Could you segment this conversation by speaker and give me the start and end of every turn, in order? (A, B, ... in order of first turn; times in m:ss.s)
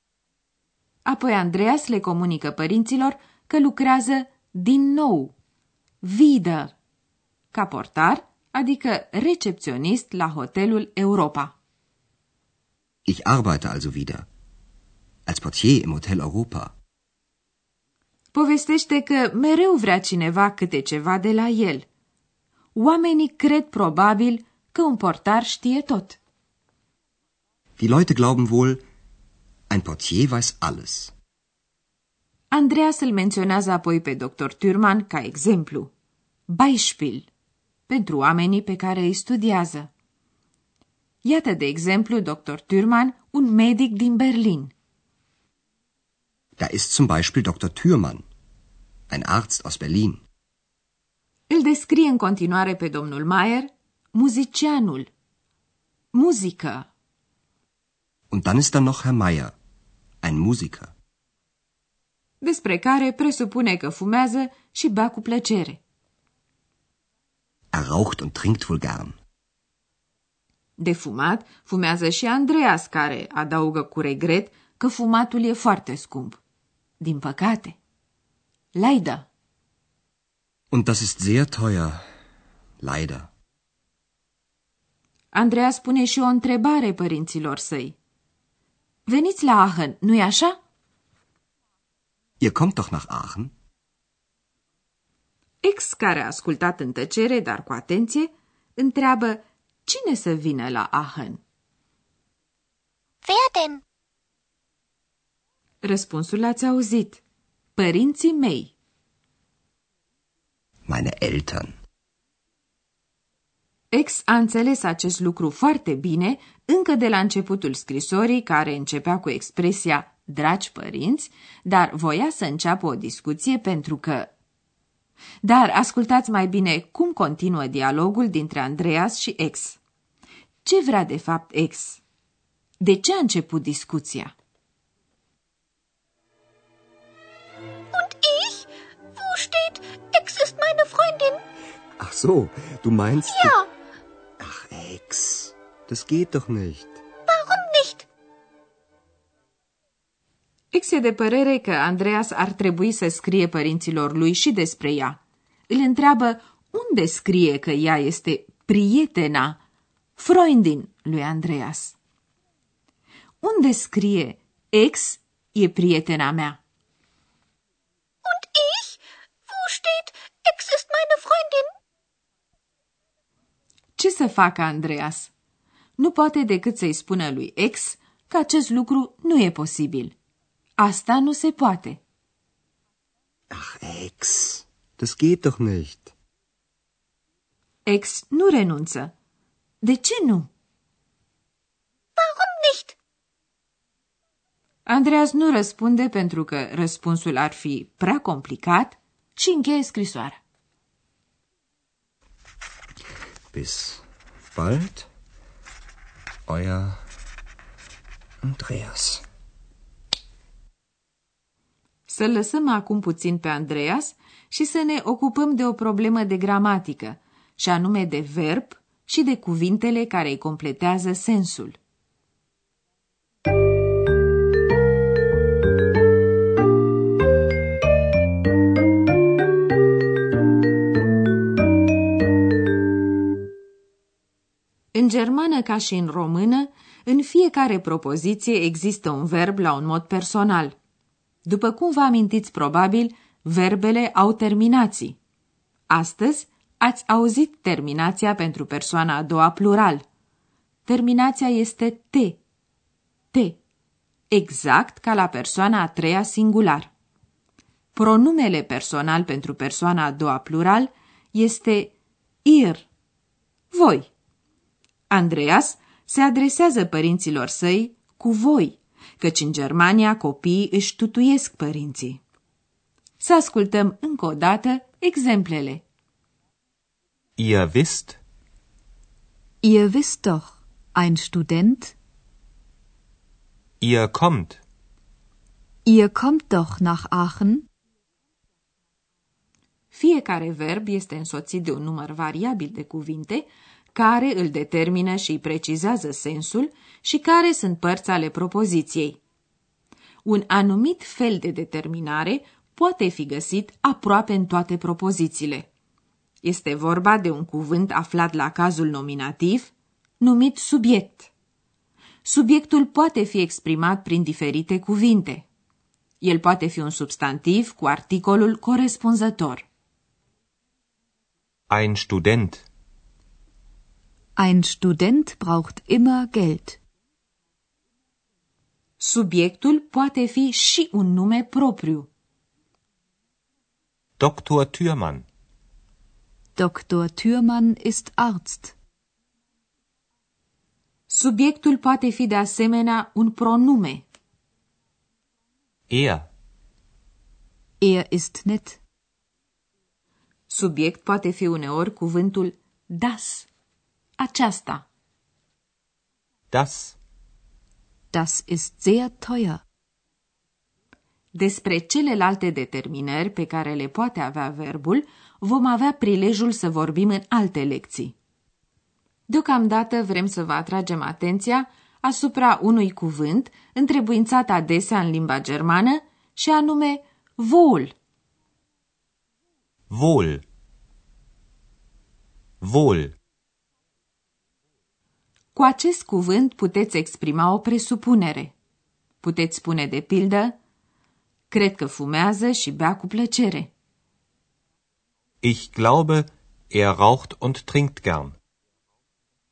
0:01.0-0:05.3 A
0:06.0-0:06.7 A
0:07.5-0:11.5 A
0:13.1-0:14.3 B
0:15.3-0:16.7 B
0:18.3-0:21.9 A
0:22.8-0:26.2 A
0:27.8-0:28.8 B
0:29.7-0:31.1 B
0:32.5-0:35.9 A
0:36.5-0:37.3 A
0:37.9-0:39.9 A
0:41.2-0:44.7 A
0:46.6-0:48.3 B
0:49.1-0:50.2 B
0:51.5-0:55.1 A
0:56.1-0:56.9 A
0:58.3-0:59.5 B
1:00.2-1:00.9 B
1:02.4-1:05.8 A
1:07.7-1:09.2 B
1:10.8-1:16.4 A
1:17.0-1:17.8 A
1:18.7-1:19.3 A
1:20.7-1:22.0 B
1:22.8-1:23.3 B
1:25.3-1:28.0 A
1:29.1-1:30.6 A
1:32.4-1:33.5 B
1:35.6-1:41.4 A
1:43.2-1:43.8 C
1:45.8-1:47.2 A
1:47.8-1:48.7 A
1:50.9-1:51.8 B
1:53.9-2:04.3 A
2:05.4-2:09.8 A
2:10.6-2:12.0 A
2:12.8-2:14.3 A
2:17.9-2:21.4 C
2:22.0-2:23.6 B
2:23.3-2:23.7 C
2:24.4-2:27.0 B
2:27.3-2:28.1 C
2:30.7-2:39.6 A
2:40.2-2:42.0 A
2:43.4-2:46.6 A
2:48.2-2:49.0 C
2:49.5-2:51.7 C
2:54.0-2:55.3 A
2:56.0-3:00.2 A
3:00.8-3:02.0 A
3:03.5-3:06.1 B
3:07.8-3:09.1 A
3:09.8-3:10.5 A
3:12.2-3:12.9 C
3:14.9-3:20.4 A
3:23.5-3:25.1 B
3:26.5-3:27.0 B
3:28.4-3:29.2 B
3:32.1-3:41.8 A
3:54.9-4:00.8 A
4:01.4-4:05.2 A
4:05.9-4:10.0 A
4:10.9-4:12.4 A
4:13.3-4:13.6 A
4:14.3-4:16.9 A
4:17.9-4:21.9 A
4:22.4-4:22.9 A
4:23.7-4:24.1 A
4:25.1-4:32.2 A
4:33.2-4:35.8 A
4:37.4-4:38.2 D
4:39.6-4:42.0 E
4:43.8-4:44.6 D
4:45.9-4:47.7 E
4:49.9-4:59.2 A
5:00.2-5:05.7 A
5:06.4-5:11.3 A
5:12.2-5:15.4 A
5:16.2-5:19.7 A
5:21.7-5:22.7 D
5:24.4-5:26.8 E
5:29.0-5:32.1 A
5:34.2-5:35.3 D
5:36.6-5:38.8 E
5:41.1-5:44.1 A
5:45.9-5:46.3 D
5:47.8-5:48.8 E
5:50.5-5:53.5 A
5:54.2-5:54.8 A
5:56.5-5:57.0 D
5:58.1-5:59.6 E
6:01.3-6:08.1 A
6:09.3-6:17.9 A
6:19.9-6:20.4 D
6:22.6-6:23.2 D
6:25.6-6:28.5 A
6:29.2-6:30.6 A
6:31.5-6:33.7 A
6:35.4-6:38.4 D